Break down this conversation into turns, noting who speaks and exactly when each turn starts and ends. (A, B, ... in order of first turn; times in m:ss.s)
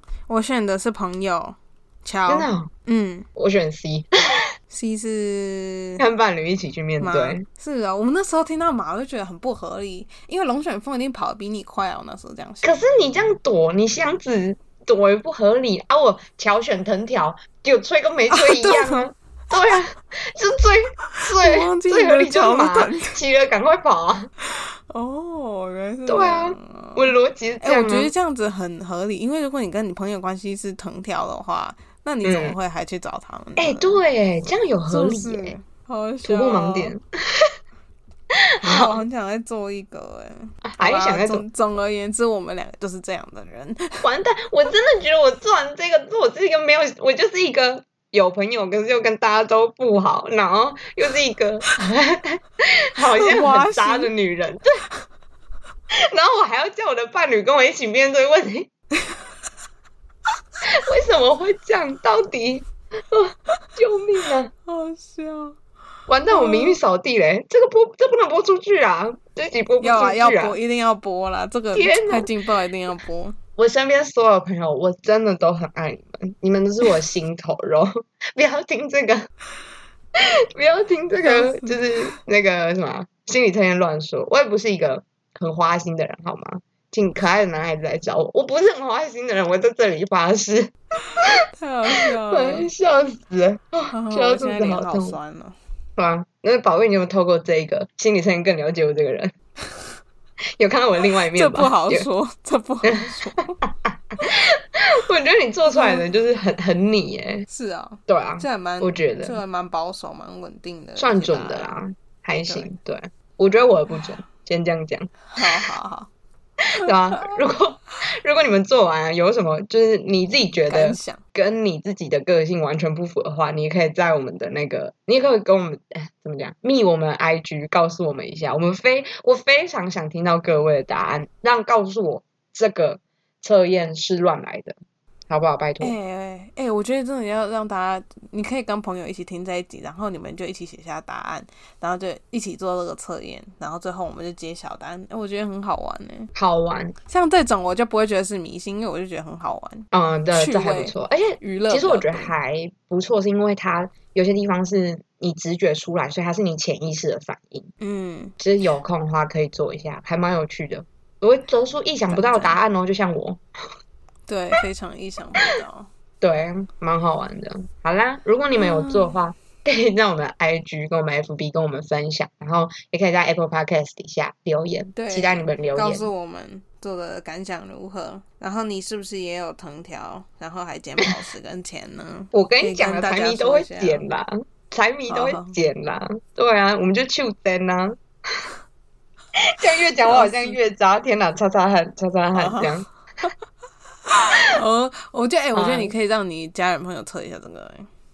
0:00.3-0:03.3 A
0:02.3-0:02.7 B
0:03.3-0:04.5 B
0:04.7-0:06.0 A
0:06.0-0:07.4 B
0:07.0-0:13.3 A
0:12.6-0:24.3 B
0:18.3-0:19.1 A
0:21.2-0:23.2 A
0:24.4-0:34.0 A
0:26.1-0:28.1 B
0:32.2-0:32.6 B
0:33.6-0:35.5 B
0:34.9-0:37.0 A
0:36.2-0:37.5 B
0:38.4-0:39.0 B
0:38.6-0:44.1 A
0:40.6-0:41.4 B
0:44.0-0:54.8 B
0:53.1-0:54.1 A
0:55.9-0:58.7 B
1:00.6-1:04.5 B
1:04.6-1:05.6 A
1:06.1-1:10.6 B
1:06.3-1:06.8 A
1:09.8-1:13.4 A
1:11.7-1:12.3 B
1:13.6-1:19.3 B
1:20.2-1:31.4 B
1:21.2-1:22.2 A
1:31.5-1:32.7 A
1:31.9-1:35.2 B
1:33.9-1:35.6 A
1:36.0-1:39.3 B
1:40.6-1:42.1 B
1:41.3-1:43.6 A
1:43.6-1:47.5 B
1:45.7-1:46.0 A
1:47.5-1:51.7 A
1:48.1-1:49.4 B
1:51.0-1:55.6 B
1:52.3-1:52.7 A
1:55.3-1:56.1 A
1:56.6-2:14.8 B
2:00.7-2:01.2 A
2:15.3-2:16.0 B
2:15.8-2:26.3 A
2:26.3-2:26.9 B
2:27.0-2:32.3 A
2:29.9-2:37.7 B
2:37.8-2:38.3 A
2:38.4-2:43.4 B
2:42.1-2:42.6 A
2:44.3-2:45.9 A
2:46.2-2:56.1 B
2:48.6-2:49.2 A
2:54.9-3:04.0 A
3:02.3-3:08.4 B
3:05.1-3:05.6 A
3:09.4-3:12.8 B
3:10.0-3:10.6 A
3:12.3-3:13.3 A
3:14.1-3:17.9 A
3:15.5-3:15.9 B